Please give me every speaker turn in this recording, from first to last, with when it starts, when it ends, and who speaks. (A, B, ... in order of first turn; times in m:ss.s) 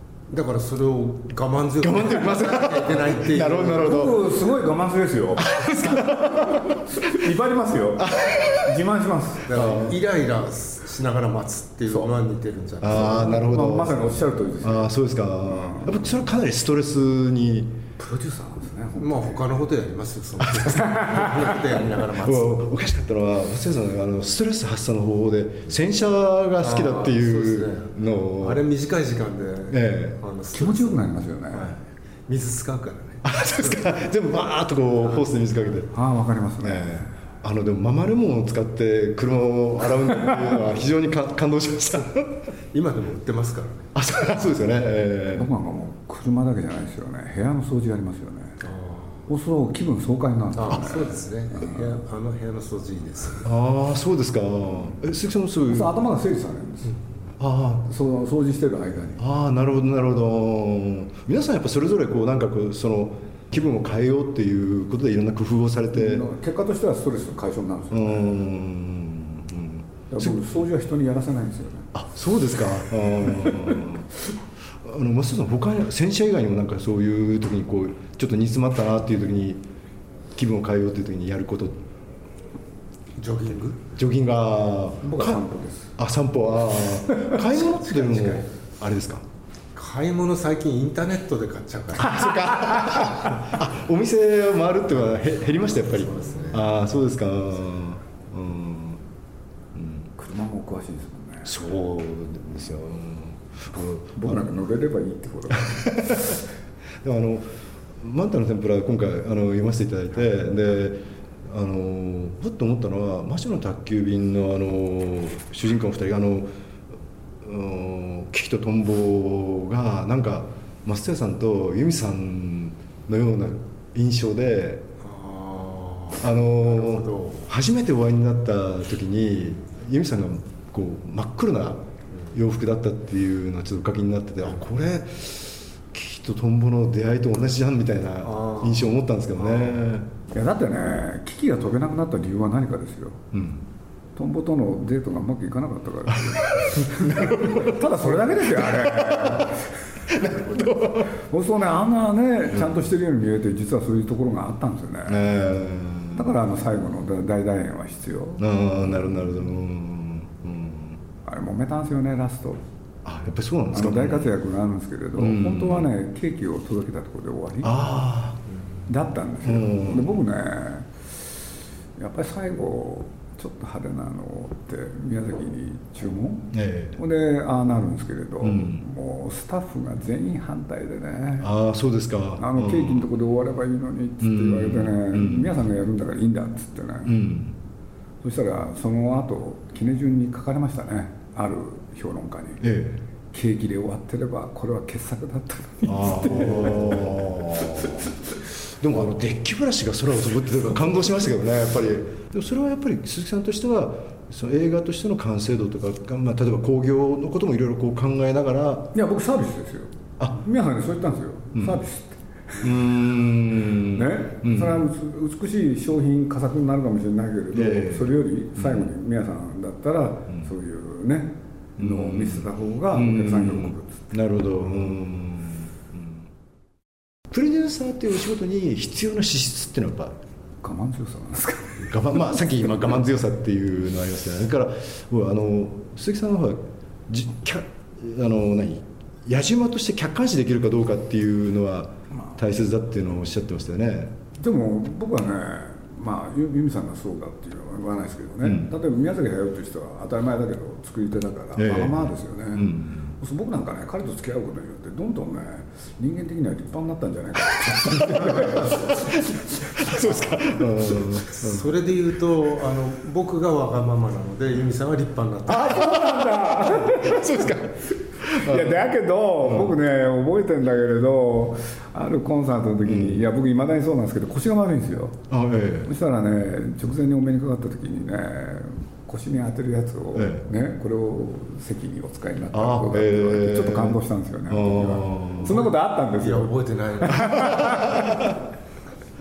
0:00.3-0:04.1 A
0:01.8-0:04.3 B
0:03.5-0:09.5 C
0:05.4-0:07.0 B
0:08.0-0:08.7 B
0:09.5-0:13.4 A
0:09.5-0:10.0 B
0:11.9-0:12.1 C
0:12.8-0:17.8 B
0:12.9-0:14.9 C
0:15.5-0:16.1 C
0:18.0-0:19.5 C
0:19.0-0:22.6 A
0:20.8-0:21.5 C
0:22.1-0:28.6 B
0:26.6-0:34.0 A
0:29.7-0:30.2 B
0:30.5-0:31.7 C
0:33.2-0:35.9 B
0:35.9-0:37.1 C
0:36.6-0:42.5 B
0:42.7-0:43.9 A
0:44.0-0:45.5 B
0:45.3-0:48.6 C
0:48.6-0:49.2 A
0:49.3-0:51.9 C
0:50.5-0:53.5 A
0:53.4-0:55.9 B
0:55.7-0:57.0 C
0:57.4-0:57.9 B
0:57.8-0:59.2 C
0:59.2-1:06.3 B
1:05.9-1:08.4 C
1:07.9-1:10.4 B
1:10.1-1:11.9 C
1:11.9-1:14.1 B
1:13.2-1:13.9 C
1:14.8-1:19.6 B
1:20.4-1:21.8 B
1:23.2-1:23.8 A
1:24.0-1:25.4 B
1:25.0-1:26.0 C
1:26.0-1:29.3 B
1:27.4-1:28.5 A
1:29.8-1:32.8 A
1:32.0-1:39.0 B
1:35.2-1:36.7 A
1:39.8-1:40.1 B
1:40.2-1:41.5 C
1:41.4-1:44.5 B
1:44.2-1:46.4 C
1:45.7-1:46.4 B
1:47.0-1:56.5 B
1:57.4-2:04.9 B
2:05.0-2:07.5 A
2:06.2-2:20.1 B
2:18.2-2:19.8 A
2:20.3-2:23.2 C
2:23.3-2:23.7 B
2:24.2-2:35.2 C
2:26.3-2:29.5 B
2:30.1-2:31.1 B
2:35.1-2:36.3 B
2:36.2-2:38.4 C
2:38.4-2:41.0 B
2:41.2-2:42.6 C
2:43.0-2:44.4 B
2:43.7-2:47.9 C
2:45.2-2:45.9 B
2:47.6-2:48.4 B
2:48.9-2:50.9 C
2:49.4-2:50.1 B
2:52.0-3:01.5 C
2:56.5-2:57.0 B
2:58.4-2:58.8 B
3:01.4-3:03.1 B
3:02.4-3:07.2 C
3:04.2-3:05.6 B
3:07.0-3:07.6 B
3:08.2-3:12.8 C
3:12.6-3:13.0 B
3:13.3-3:18.1 C
3:15.9-3:28.9 B
3:28.9-3:32.7 C
3:31.6-3:31.8 B
3:32.6-3:34.8 B
3:33.8-3:44.1 C
3:37.5-3:38.9 B
3:41.8-3:46.3 B
3:47.3-3:50.2 B
3:50.6-3:52.3 C
3:51.8-4:04.2 B
4:04.4-4:20.6 C
4:08.4-4:08.7 B
4:11.6-4:13.2 B
4:18.2-4:19.1 B
4:19.8-4:21.7 B
4:21.3-4:25.8 A
4:25.5-4:35.2 C
4:25.8-4:28.8 B
4:29.4-4:29.8 B
4:32.8-4:33.3 B
4:35.3-4:35.9 B
4:35.8-4:48.3 C
4:40.1-4:40.5 B
4:42.5-4:45.6 B
4:46.1-4:47.8 A
4:47.6-4:48.4 B